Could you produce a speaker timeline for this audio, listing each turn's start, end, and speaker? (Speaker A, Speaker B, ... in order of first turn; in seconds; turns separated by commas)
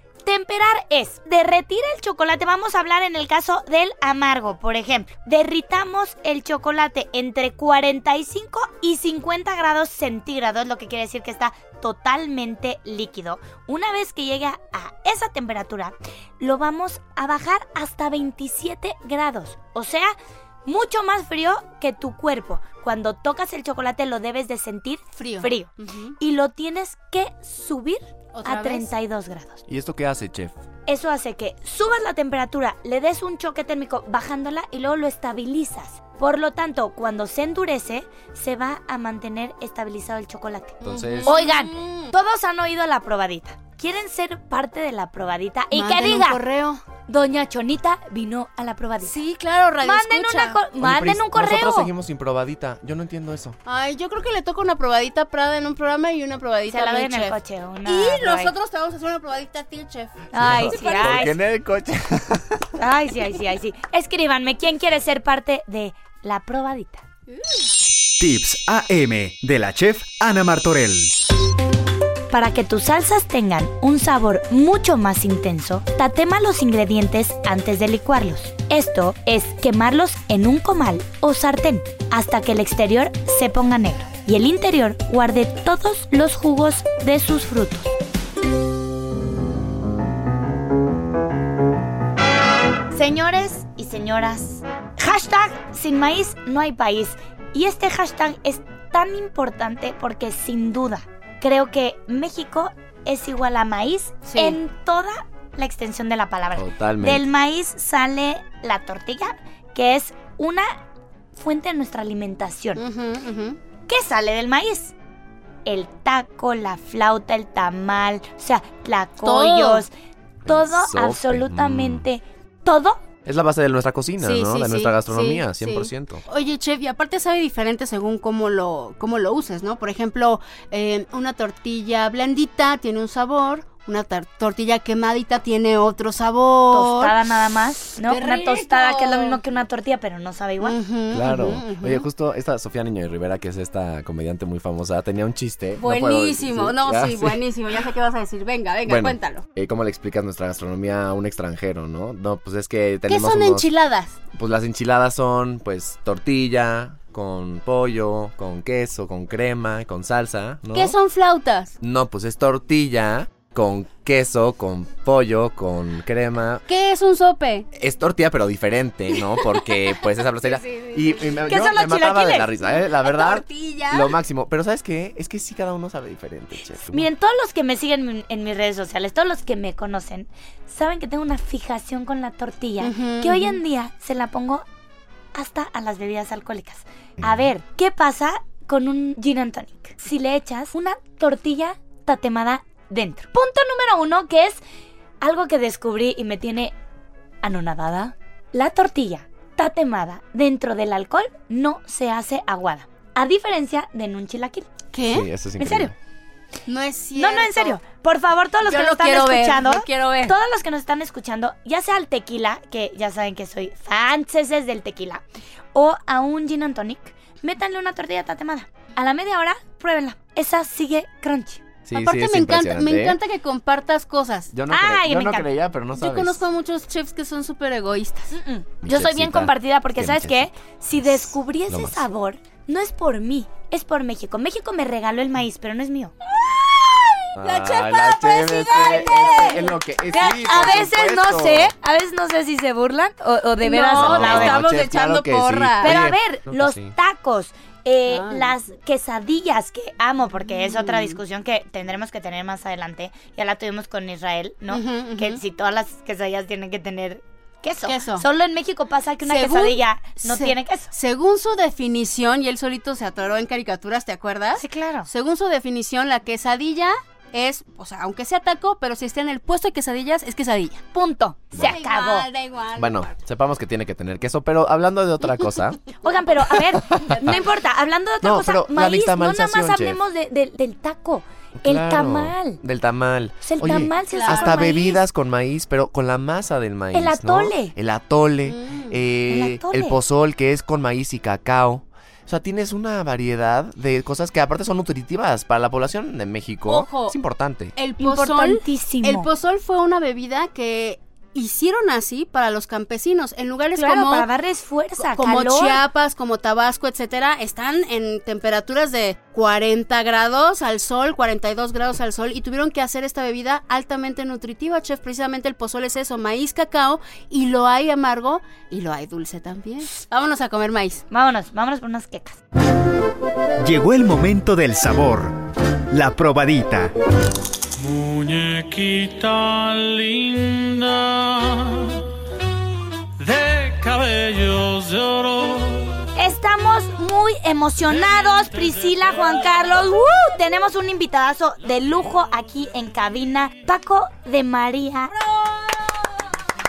Speaker A: 0.2-20.1, Speaker A: 20.6-29.6, Speaker B: 25.2-26.1, Speaker B: 28.3-28.9, Speaker C: 29.7-30.5, Speaker A: 30.9-46.4, Speaker B: 40.8-42.1, Speaker C: 40.8-41.4, Speaker B: 45.7-46.8, Speaker A: 47.1-49.2, Speaker B: 49.0-50.6, Speaker A: 49.8-51.9, Speaker C: 50.8-53.6, Speaker B: 53.6-61.3, Speaker A: 56.7-58.5, Speaker A: 60.3-61.4, Speaker C: 60.4-62.6, Speaker A: 62.8-67.0, Speaker D: 68.2-71.1, Speaker A: 72.3-87.9, Speaker A: 92.9-110.8, Speaker B: 104.2-104.6, Speaker C: 106.5-107.3, Speaker A: 111.3-112.8, Speaker B: 112.8-113.6, Speaker A: 113.9-114.9, Speaker A: 115.6-119.9, Speaker B: 119.2-119.8, Speaker C: 120.4-122.0, Speaker A: 120.5-123.0, Speaker C: 123.2-126.2, Speaker B: 124.2-137.2, Speaker A: 136.7-140.8, Speaker B: 138.0-139.4, Speaker B: 140.6-142.0, Speaker C: 141.1-147.4, Speaker B: 145.8-149.4, Speaker C: 148.8-153.7, Speaker B: 153.1-154.2, Speaker C: 154.3-160.9, Speaker B: 160.7-161.8, Speaker C: 161.8-166.6, Speaker B: 166.7-167.7, Speaker C: 167.7-177.1, Speaker B: 169.4-169.8, Speaker B: 170.4-171.5, Speaker A: 171.4-172.5, Speaker B: 172.7-174.1, Speaker A: 176.8-184.6, Speaker B: 182.8-183.6, Speaker A: 185.3-194.6, Speaker A: 195.2-196.7, Speaker A: 197.4-204.7, Speaker B: 204.9-205.3, Speaker C: 205.0-205.9, Speaker A: 205.6-205.9, Speaker B: 206.7-207.8, Speaker A: 207.2-215.2, Speaker B: 208.6-210.3, Speaker A: 215.7-221.6, Speaker C: 221.8-223.2, Speaker B: 221.9-224.5, Speaker C: 224.5-226.4, Speaker A: 224.7-225.5, Speaker B: 225.9-228.3, Speaker A: 228.3-236.1, Speaker C: 228.8-230.5, Speaker C: 231.1-232.0, Speaker B: 236.3-240.8, Speaker C: 237.3-241.7, Speaker A: 239.0-239.5, Speaker A: 240.1-244.6, Speaker B: 243.6-245.9, Speaker C: 243.9-246.9, Speaker A: 245.8-260.9, Speaker B: 248.1-248.5, Speaker B: 250.6-251.2, Speaker B: 254.7-255.4, Speaker B: 257.8-258.2, Speaker B: 259.2-270.8, Speaker A: 264.6-265.1, Speaker A: 270.9-272.3, Speaker B: 271.6-273.1, Speaker C: 272.8-275.8, Speaker A: 276.0-282.6, Speaker C: 276.7-277.4, Speaker B: 277.1-277.4, Speaker C: 278.2-280.0, Speaker C: 281.6-297.8, Speaker A: 283.4-285.0, Speaker B: 284.1-284.8, Speaker A: 286.9-287.7, Speaker B: 288.4-288.9, Speaker A: 289.3-290.0, Speaker B: 296.7-297.1, Speaker B: 297.8-304.3, Speaker A: 298.0-299.3, Speaker A: 303.8-305.8, Speaker B: 305.0-321.0, Speaker A: 321.1-322.4, Speaker D: 323.6-325.3, Speaker D: 325.9-326.9, Speaker E: 327.8-332.0, Speaker E: 333.2-336.0, Speaker A: 336.1-345.1, Speaker E: 338.0-339.7, Speaker B: 345.1-346.2